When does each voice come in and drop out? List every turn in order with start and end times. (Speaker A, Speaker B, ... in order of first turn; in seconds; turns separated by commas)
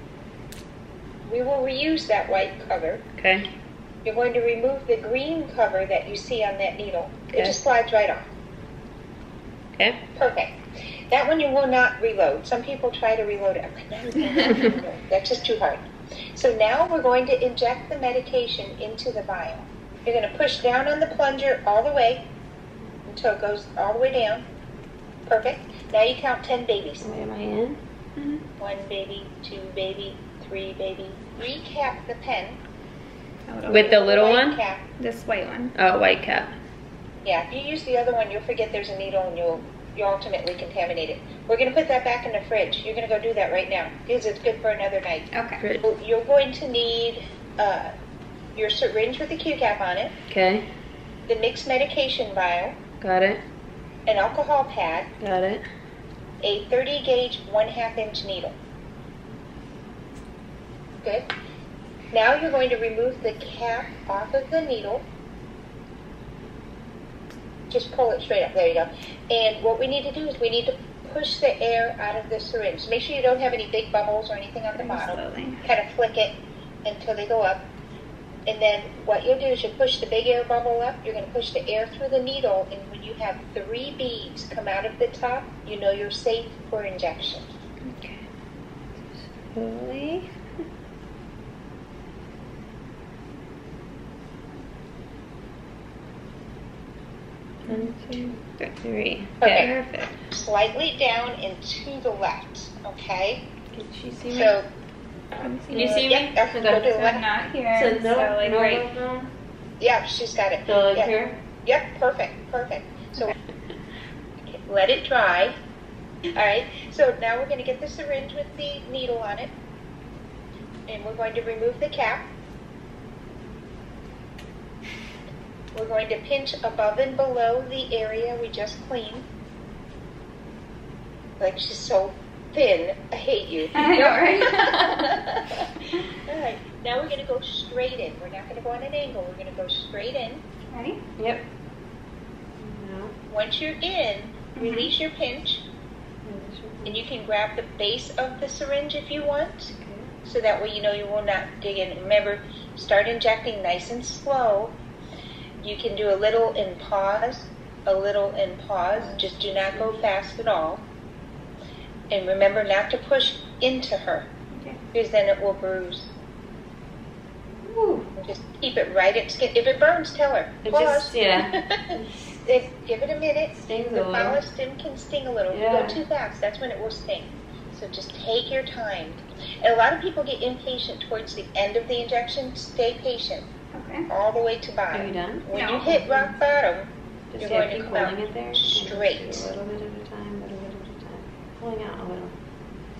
Speaker A: 1.2-3.0, Speaker B: 3.2-3.5, Speaker A: 4.0-8.3, Speaker A: 10.1-10.6, Speaker A: 11.1-22.2, Speaker A: 23.1-24.4, Speaker A: 25.3-27.1, Speaker B: 27.0-27.8, Speaker C: 28.2-28.4, Speaker A: 28.6-32.6, Speaker C: 33.5-34.0, Speaker B: 33.7-34.6, Speaker A: 33.7-34.8, Speaker C: 35.0-35.7, Speaker B: 35.8-36.5, Speaker A: 37.2-47.9, Speaker C: 45.3-45.6, Speaker A: 48.5-50.1, Speaker B: 50.3-50.7, Speaker A: 51.2-52.7, Speaker B: 53.0-53.4, Speaker A: 54.1-55.1, Speaker B: 55.2-55.6, Speaker A: 56.4-58.5, Speaker A: 62.1-65.0, Speaker A: 67.7-77.6, Speaker C: 74.7-75.6, Speaker A: 78.5-87.5, Speaker B: 87.8-88.2, Speaker B: 89.1-90.3, Speaker B: 97.7-99.7, Speaker C: 97.7-98.3, Speaker A: 99.4-103.5, Speaker C: 99.4-100.1, Speaker B: 103.7-104.5, Speaker A: 104.3-104.7, Speaker C: 105.4-106.0, Speaker B: 105.7-106.9, Speaker A: 105.7-107.2, Speaker C: 106.7-108.8, Speaker B: 107.7-109.3, Speaker A: 109.8-113.3, Speaker B: 110.7-111.3, Speaker A: 114.5-115.5, Speaker A: 116.3-119.5, Speaker A: 120.9-122.3, Speaker A: 125.7-129.2, Speaker A: 131.4-140.4, Speaker C: 133.7-135.2, Speaker C: 140.7-141.0, Speaker B: 141.2-141.4, Speaker B: 142.6-143.1, Speaker A: 143.3-145.6, Speaker C: 144.6-144.9, Speaker B: 146.2-147.0, Speaker A: 146.8-154.7, Speaker B: 149.8-150.1, Speaker A: 155.6-160.8, Speaker B: 159.0-160.0, Speaker A: 162.1-164.2, Speaker C: 164.5-164.8, Speaker A: 164.9-166.1, Speaker B: 167.6-168.1, Speaker A: 168.2-183.4, Speaker B: 170.6-172.4, Speaker B: 173.5-174.4, Speaker B: 175.5-176.0, Speaker C: 183.7-184.1, Speaker A: 184.1-189.5, Speaker B: 184.9-185.4, Speaker C: 185.5-186.3, Speaker B: 187.3-192.3